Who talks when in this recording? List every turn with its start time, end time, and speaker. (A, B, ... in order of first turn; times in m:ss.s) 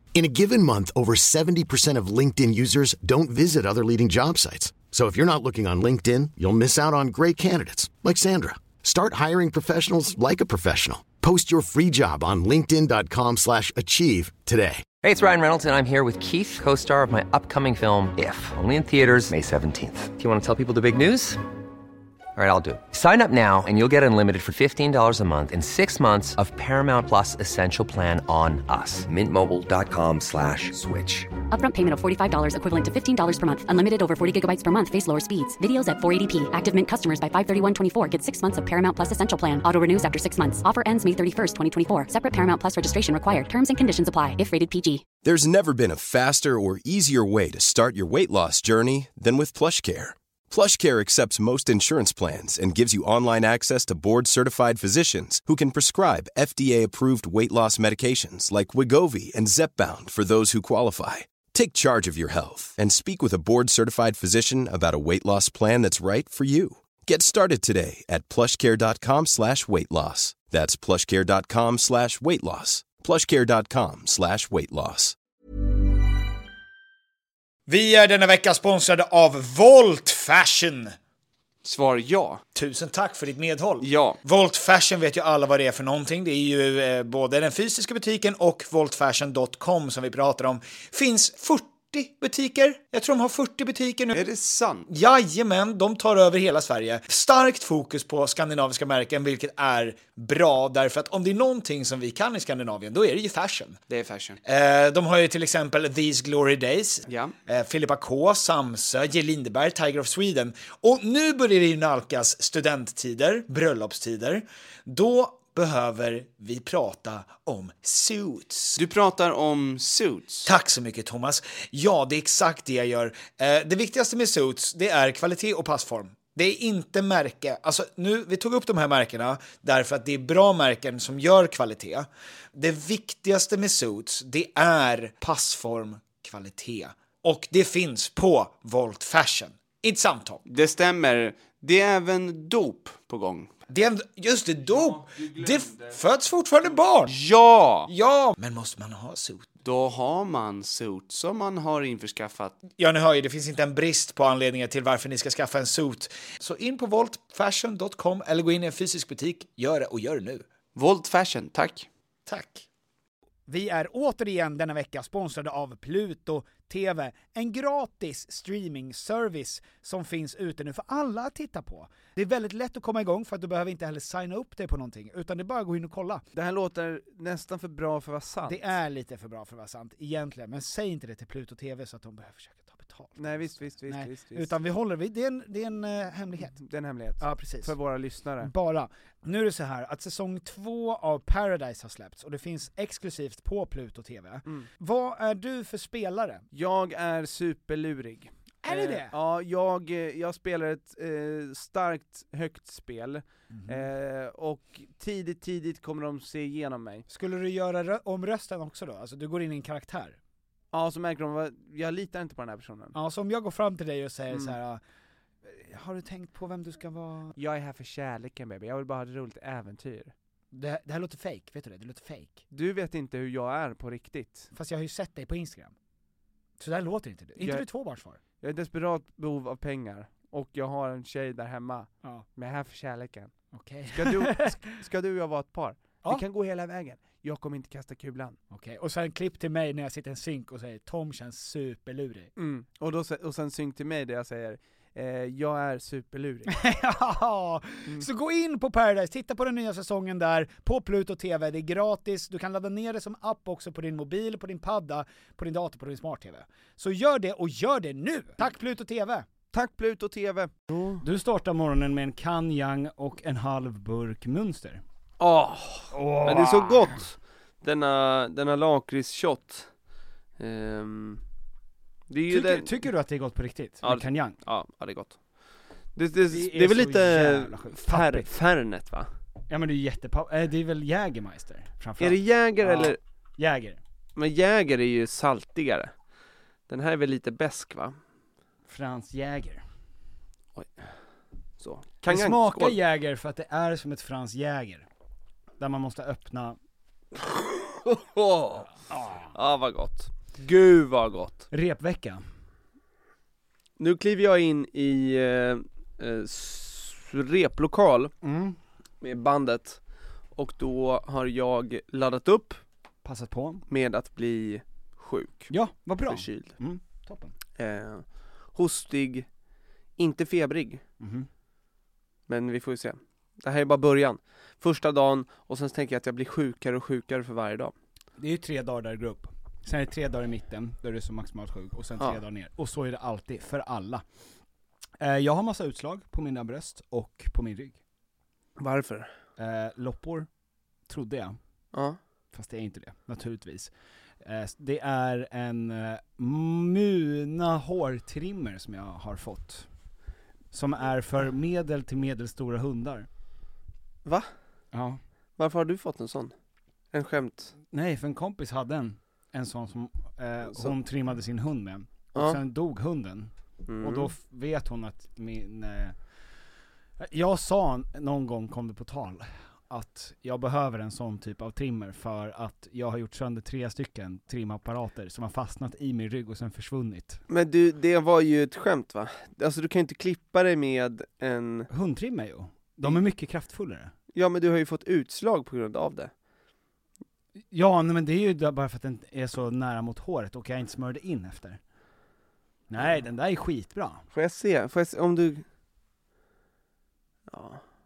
0:00.1-0:14.9 A
0:15.0-0:21.4 B
0:22.4-0:31.3 B
0:31.5-0:45.1 C
0:45.2-1:15.2 D
1:17.7-1:21.0 E
1:21.6-1:22.4 F
1:22.5-1:34.2 E
1:23.8-1:24.2 F
1:34.1-1:34.9 F
1:34.9-1:43.8 E
1:43.9-1:44.4 F
1:44.4-1:58.7 E
1:47.1-1:47.3 F
1:58.8-2:00.5 F
2:00.4-2:16.4 E
2:15.4-2:16.9 G
2:17.2-2:20.4 E
2:20.4-2:23.5 F
2:23.7-2:27.1 E
2:25.0-2:25.9 F
2:27.1-2:27.9 F
2:27.9-2:29.5 E
2:29.6-2:32.6 F
2:32.7-2:40.4 E
2:40.8-2:41.8 F
2:42.3-2:42.6 E
2:43.5-2:56.2 G
2:56.3-2:58.8 H
2:58.4-3:06.6 G
3:03.2-3:04.5 H
3:06.5-3:08.5 H
3:07.2-3:07.8 G
3:08.4-3:16.4 G
3:16.5-3:27.0 H
3:18.6-3:19.1 G
3:23.5-3:23.8 G
3:27.1-3:30.2 G
3:30.7-3:32.9 H
3:32.9-3:34.8 G
3:35.4-3:37.3 G
3:37.4-3:40.1 H
3:40.5-3:42.4 G
3:42.5-3:44.5 H
3:44.5-3:45.7 G
3:46.6-3:48.2 G
3:47.4-3:47.7 H
3:48.4-3:53.3 H
3:53.5-3:54.6 G
3:53.8-3:58.4 H
3:58.5-4:02.3 G
4:02.4-4:06.5 H
4:06.5-4:19.2 G
4:19.5-4:21.0 H
4:21.0-4:24.8 G
4:25.2-4:29.8 H
4:25.9-4:26.8 G
4:30.4-4:31.2 H
4:32.1-4:32.8 H
4:32.3-4:34.4 G
4:33.8-4:39.1 H
4:36.3-4:38.3 G
4:39.5-4:43.8 G
4:42.0-4:43.0 H
4:44.2-4:45.9 H
4:46.7-4:48.0 H
4:48.7-4:49.6 G
4:50.6-4:52.8 H
4:52.0-4:54.9 G
4:55.6-4:56.6 G
4:57.8-4:58.7 H
4:58.9-4:59.3 G
4:59.3-5:01.4 H
5:01.5-5:02.2 G
5:03.8-5:08.1 H
5:08.2-5:08.6 G
5:09.0-5:12.6 H
5:13.0-5:13.6 G
5:13.7-5:16.6 H
5:15.5-5:17.3 G
5:17.6-5:19.3 H
5:20.0-5:20.8 H
5:21.0-5:21.3 G
5:22.3-5:27.7 H
5:28.2-5:34.0 G
5:35.0-5:37.8 G
5:38.6-5:39.1 H
5:39.4-5:40.3 G
5:40.8-5:41.4 G
5:41.7-5:42.0 H
5:42.3-5:49.9 G
5:50.5-5:53.1 G
5:54.0-5:54.4 H
5:54.7-5:55.0 G
5:55.4-5:56.4 H
5:56.9-5:57.5 H
5:57.7-6:06.3 G
6:03.7-6:04.1 H
6:07.0-6:17.2 G
6:17.3-6:21.7 H
6:21.7-6:23.9 G
6:24.1-6:26.1 H
6:27.5-6:31.6 G
6:32.7-6:34.0 G
6:34.1-6:35.4 H
6:37.3-6:37.6 H